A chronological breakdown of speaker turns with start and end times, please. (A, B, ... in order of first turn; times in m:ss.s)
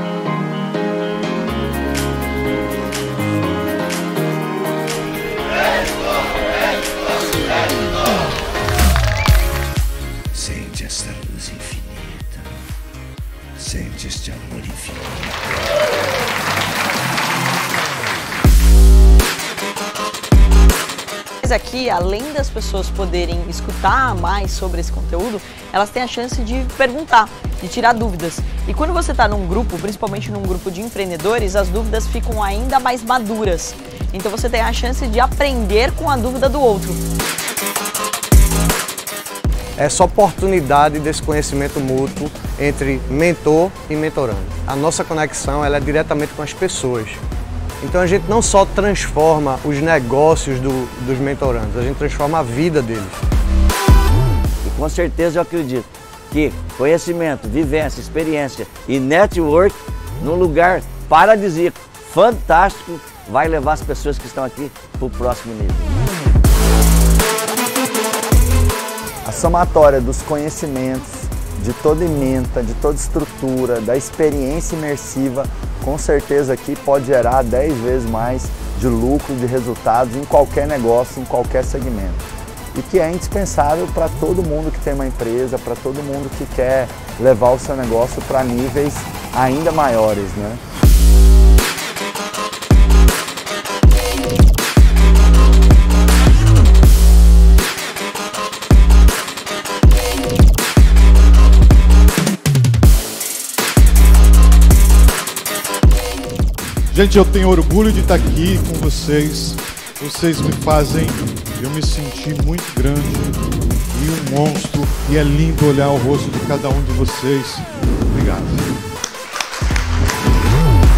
0:10.3-0:12.5 A
0:13.6-0:15.3 A
0:21.4-0:37.0 B
0:39.8-0:47.2 C
0:47.8-0:53.2 C
0:54.6-1:05.9 D
1:09.2-1:30.6 E
1:46.9-1:53.4 F
1:53.9-1:58.7 F